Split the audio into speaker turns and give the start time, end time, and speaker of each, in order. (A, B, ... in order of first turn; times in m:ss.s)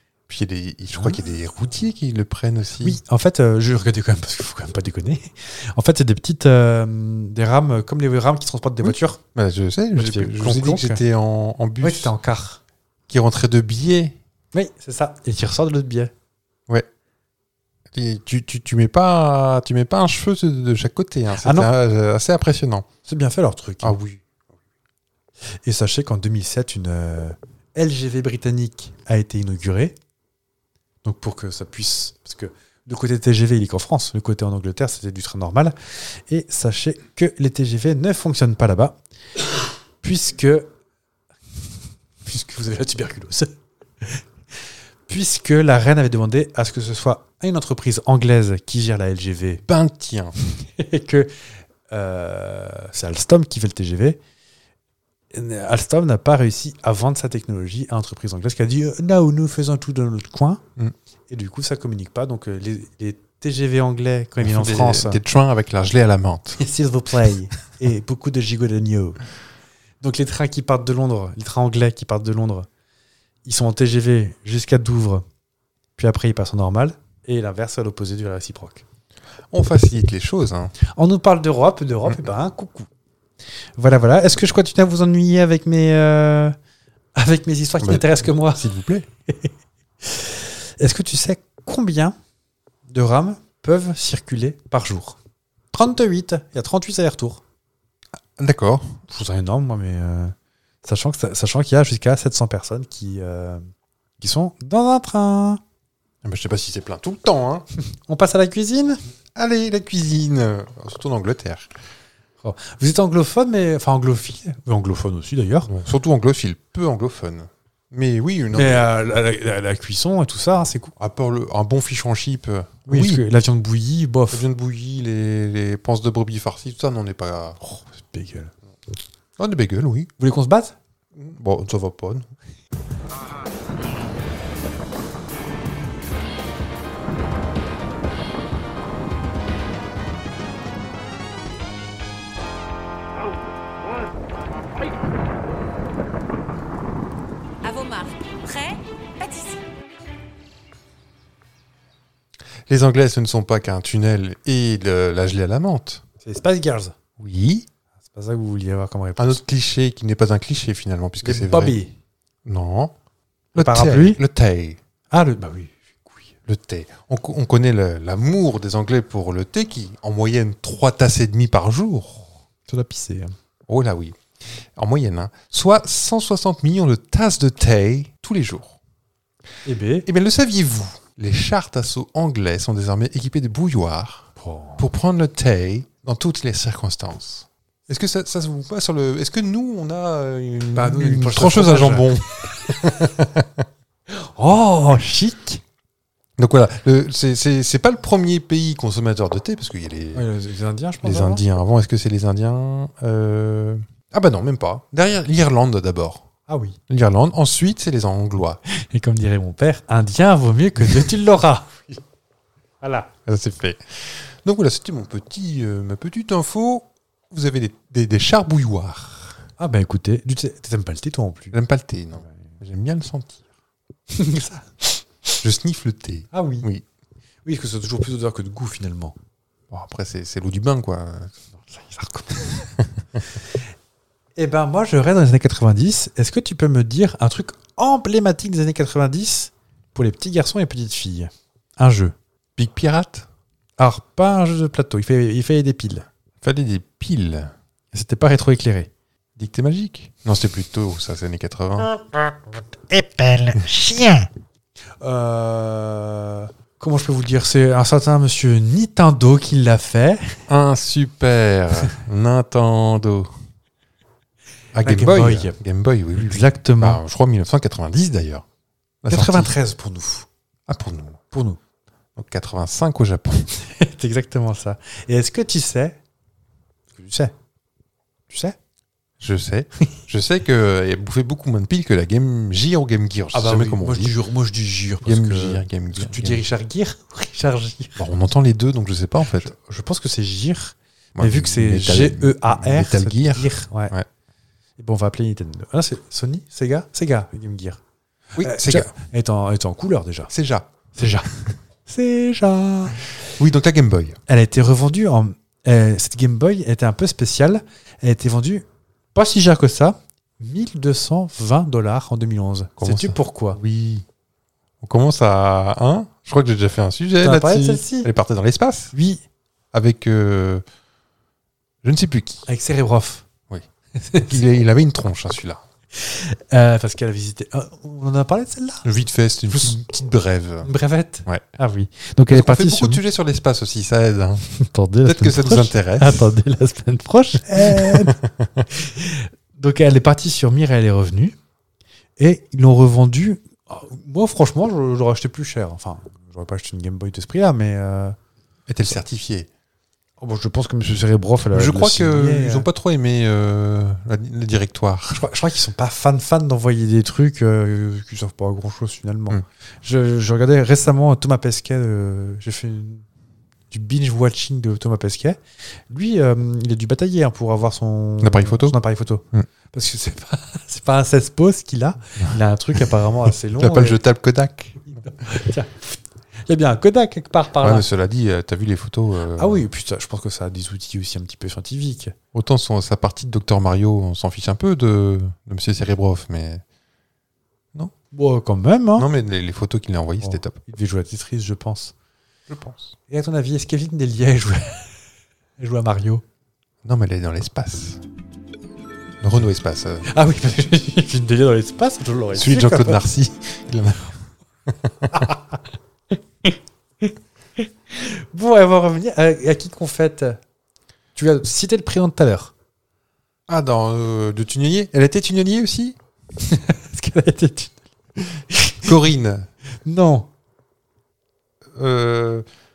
0:00.3-0:03.0 A
0:02.8-0:09.2 B
0:08.8-0:12.1 A
0:09.9-0:11.0 B
0:11.8-0:12.6 B
0:13.1-0:14.2 A
0:14.5-0:16.1 B
0:17.9-0:22.8 A
0:21.4-0:21.7 B
0:23.0-0:23.9 B
0:23.8-0:24.2 A
0:25.6-0:30.0 B
0:31.0-0:35.8 B
0:36.3-0:39.0 B
0:40.0-0:40.7 B
0:42.2-0:44.2 B
0:45.1-0:49.6 B
0:49.7-0:50.3 A
0:50.7-0:51.3 B
0:51.9-0:54.2 B
0:55.3-1:00.6 B
1:01.3-1:05.2 B
1:04.4-1:06.6 A
1:06.6-1:09.2 B
1:10.0-1:12.7 B
1:13.4-1:15.2 B
1:16.0-1:18.8 B
1:19.5-1:20.7 A
1:20.9-1:22.9 B
1:23.8-1:26.5 B
1:27.2-1:28.6 B
1:27.8-1:29.1 A
1:30.0-1:32.1 B
1:32.9-1:35.2 B
1:35.7-1:37.4 B
1:38.4-1:39.0 A
1:39.1-1:43.6 B
1:44.2-1:45.6 B
1:46.2-1:47.6 A
1:47.9-1:49.0 B
1:49.3-1:51.7 A
1:52.4-1:55.7 B
1:55.7-1:58.8 A
1:58.5-2:00.9 B
2:01.0-2:03.2 A
2:02.9-2:04.4 B
2:04.3-2:07.6 A
2:07.6-2:08.5 B
2:09.4-2:10.1 A
2:10.2-2:10.7 B
2:11.1-2:12.3 A
2:27.6-2:29.6 C
2:32.7-2:36.0 A
2:36.2-2:36.9 B
2:37.2-2:37.7 A
2:38.1-2:39.4 B
2:39.2-2:41.8 A
2:41.2-2:41.9 B
2:42.4-2:42.9 A
2:43.5-2:44.8 A
2:43.6-2:44.2 B
2:45.1-2:46.3 B
2:46.5-2:52.4 A
2:52.7-2:53.3 B
2:53.7-2:58.8 A
2:59.6-3:00.1 B
3:00.0-3:13.6 A
3:04.4-3:04.8 B
3:10.7-3:12.9 B
3:14.1-3:15.6 B
3:16.4-3:20.2 A
3:20.1-3:21.4 B
3:21.0-3:26.3 A
3:26.5-3:26.8 B
3:26.9-3:28.6 A
3:28.7-3:31.8 B
3:32.8-3:33.1 B
3:33.2-3:39.4 A
3:39.6-3:41.5 B
3:41.5-3:43.4 A
3:44.1-3:45.0 B
3:45.4-3:46.8 A
3:46.3-3:46.7 B
3:47.4-3:49.1 B
3:49.7-3:51.3 A
3:51.5-3:52.6 B
3:54.4-4:02.1 B
4:02.6-4:03.3 A
4:03.8-4:06.0 B
4:06.4-4:07.5 A
4:07.9-4:08.9 B
4:09.4-4:11.9 A
4:11.8-4:14.3 B
4:15.0-4:20.4 B
4:20.5-4:23.4 A
4:24.7-4:28.4 A
4:24.8-4:25.6 B
4:26.2-4:27.0 B
4:29.0-4:29.5 A
4:29.1-4:30.3 B
4:30.7-4:31.2 A
4:31.3-4:31.6 B
4:32.2-4:33.5 A
4:33.6-4:36.0 B
4:36.9-4:37.3 B
4:38.3-4:38.6 B
4:39.2-4:44.2 A
4:43.3-4:48.0 B
4:45.0-4:46.4 A
4:48.0-4:49.5 A
4:49.3-4:53.9 B
4:51.2-4:54.0 A
4:54.8-4:57.8 B
4:58.4-4:58.9 A
4:58.4-5:00.3 B
5:00.3-5:00.9 A
5:01.0-5:01.3 B
5:01.8-5:03.0 B
5:03.2-5:04.2 A
5:04.3-5:13.6 B
5:12.8-5:14.0 A
5:14.8-5:18.9 A
5:17.2-5:18.1 B
5:18.9-5:19.2 B
5:19.7-5:20.6 A
5:21.8-5:22.4 A
5:22.5-5:23.2 B
5:24.0-5:24.4 B
5:24.2-5:25.6 A
5:25.9-5:28.8 B
5:28.8-5:30.7 A
5:30.6-5:33.0 B
5:32.3-5:34.4 A
5:34.5-5:38.2 B
5:35.0-5:36.3 A
5:37.6-5:38.6 A
5:38.7-5:41.4 B
5:42.2-5:48.2 B
5:48.7-5:49.5 A
5:50.2-5:52.7 B
5:51.5-5:55.2 A
5:55.1-6:03.0 B
6:03.7-6:05.4 B
6:05.9-6:14.0 B
6:08.2-6:08.8 A
6:13.6-6:15.0 A
6:14.8-6:17.8 B
6:17.6-6:19.6 A
6:19.4-6:22.1 B
6:22.3-6:26.6 A
6:28.1-6:29.1 B
6:29.0-6:30.6 A
6:30.2-6:31.9 B
6:32.5-6:32.9 A
6:33.1-6:35.0 B
6:35.6-6:36.2 B
6:36.8-6:38.0 A
6:39.2-6:40.0 A
6:40.1-6:43.0 B
6:42.3-6:44.1 A
6:44.7-6:45.2 A
6:45.1-6:45.6 B
6:46.4-6:50.4 B
6:51.1-6:52.5 B
6:53.5-6:56.0 A
6:56.4-6:57.8 B
6:58.5-6:58.9 B
6:58.8-6:59.5 A
6:59.8-7:00.3 B
7:01.7-7:02.4 A